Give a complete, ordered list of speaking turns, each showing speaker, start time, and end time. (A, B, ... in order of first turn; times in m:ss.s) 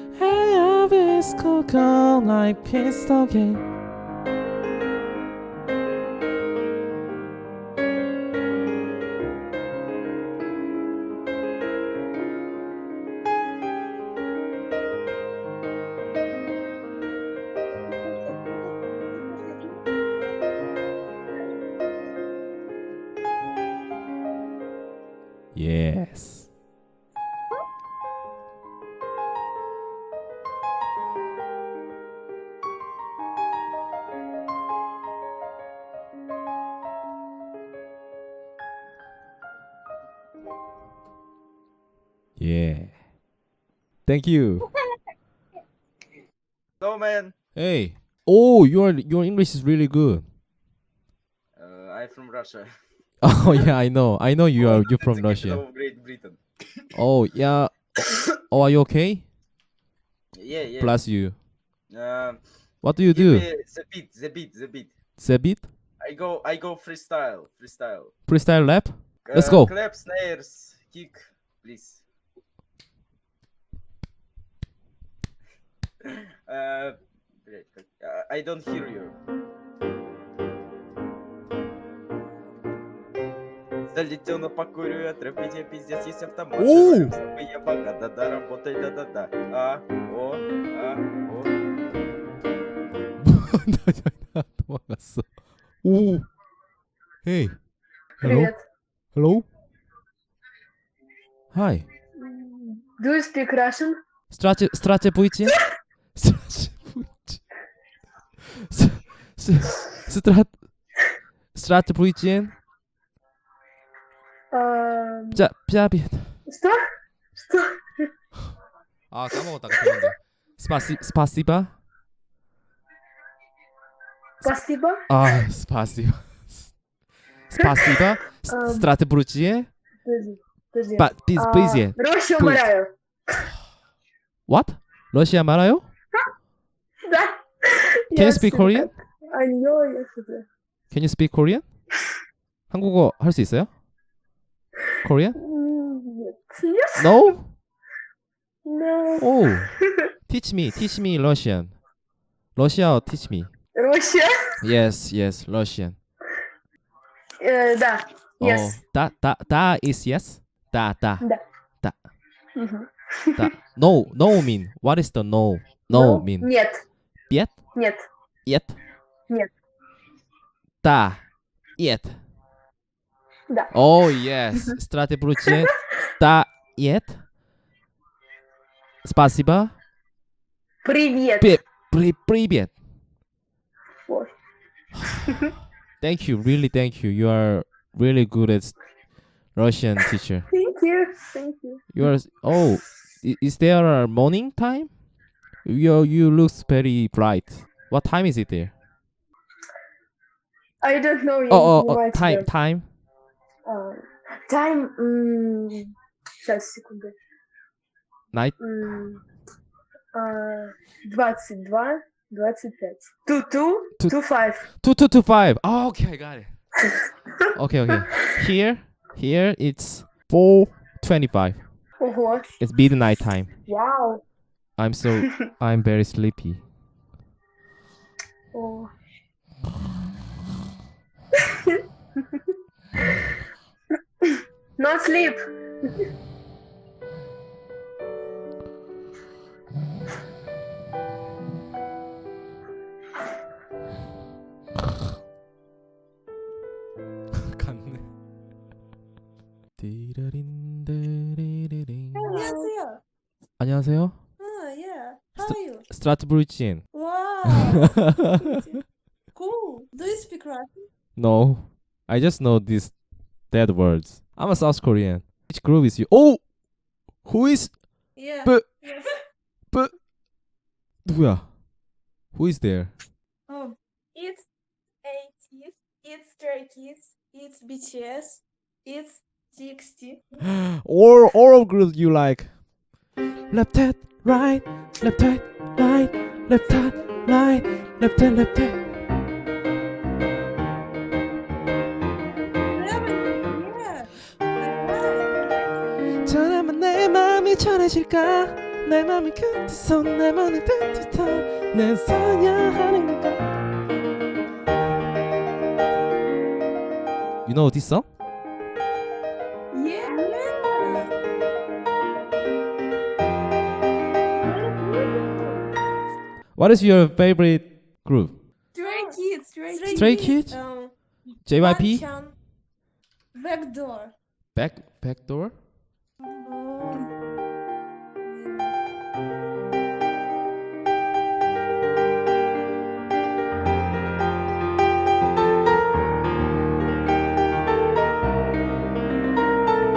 0:00.1-0:03.6 A
0:25.5-0:26.5 A
0:42.4-0:43.0 A
0:44.0-0:44.7 A
0:46.8-0:47.3 B
0:47.5-0:50.3 A
0:51.6-0:52.7 B
0:53.2-0:55.6 A
0:54.6-0:56.4 B
0:56.9-0:57.7 A
0:58.4-0:59.3 A
1:00.3-1:01.0 B
1:00.8-1:01.4 A
1:01.9-1:02.4 B
1:02.8-1:03.5 A
1:03.0-1:04.9 B
1:05.2-1:05.7 A
1:06.0-1:08.1 B
1:08.2-1:09.7 A
1:09.2-1:12.0 B
1:16.0-1:19.1 B
1:23.9-1:31.5 B
1:26.6-1:27.1 A
1:33.2-1:36.3 A
1:37.2-1:37.7 A
1:38.2-1:38.5 A
1:38.2-1:38.6 C
1:39.1-1:39.5 A
1:41.5-1:41.9 A
1:42.2-1:44.0 C
1:44.3-1:45.6 A
1:46.1-1:47.4 A
1:48.7-1:50.9 A
1:51.5-1:52.6 A
1:54.5-1:55.4 C
1:55.3-1:56.4 A
1:56.4-1:56.8 C
1:57.4-1:58.1 C
1:59.1-2:01.8 A
2:04.4-2:05.0 C
2:05.1-2:06.8 A
2:07.5-2:09.7 A
2:07.5-2:08.9 C
2:10.0-2:12.9 C
2:11.0-2:12.7 A
2:14.5-2:15.9 A
2:17.0-2:20.4 C
2:18.1-2:18.9 A
2:20.9-2:21.6 A
2:22.7-2:23.7 A
2:25.0-2:25.4 A
2:25.3-2:27.1 C
2:27.0-2:27.6 A
2:28.6-2:30.0 C
2:29.2-2:29.7 A
2:30.3-2:31.8 A
2:32.5-2:33.5 A
2:33.7-2:34.3 C
2:34.6-2:36.0 A
2:37.4-2:38.8 C
2:38.4-2:41.3 A
2:41.8-2:42.1 A
2:42.5-2:43.5 C
2:43.4-2:46.5 A
2:45.9-2:46.8 C
2:47.3-2:47.7 A
2:47.7-2:48.0 C
2:48.4-2:48.8 A
2:50.8-2:52.2 A
2:53.7-2:57.3 A
2:59.0-2:59.8 A
3:00.8-3:01.5 C
3:01.4-3:02.8 A
3:04.1-3:04.3 C
3:06.0-3:08.8 A
3:09.4-3:10.5 A
3:10.5-3:12.0 C
3:11.9-3:14.9 A
3:15.6-3:18.7 A
3:20.8-3:22.5 C
3:21.5-3:22.9 A
3:23.6-3:27.2 C
3:28.3-3:28.6 A
3:28.6-3:29.2 C
3:30.1-3:34.6 C
3:34.0-3:36.7 A
3:37.5-3:41.7 A
3:42.0-3:42.5 C
3:42.6-3:43.5 A
3:43.6-3:44.2 C
3:44.8-3:46.6 A
3:48.5-3:48.9 C
3:54.8-3:55.4 C
4:07.5-4:08.1 A
4:09.8-4:12.2 A
4:12.1-4:13.0 D
4:13.6-4:14.2 A
4:14.4-4:15.9 D
4:15.4-4:16.9 A
4:16.9-4:20.9 D
4:17.4-4:17.8 A
4:21.2-4:26.5 A
4:27.2-4:28.8 A
4:28.2-4:29.1 D
4:31.0-4:31.6 A
4:32.3-4:32.9 A
4:33.5-4:34.5 D
4:35.0-4:40.2 D
4:40.5-4:42.7 A
4:43.5-4:48.8 A
4:46.6-4:47.0 D
4:52.7-4:55.6 D
4:56.2-5:03.5 A
5:07.4-5:08.1 A
5:09.7-5:11.1 D
5:14.5-5:15.3 D
5:16.6-5:18.4 A
5:18.7-5:20.9 D
5:19.9-5:22.1 A
5:21.4-5:22.4 D
5:23.3-5:24.1 D
5:24.5-5:25.6 A
5:26.2-5:27.1 D
5:28.2-5:28.7 D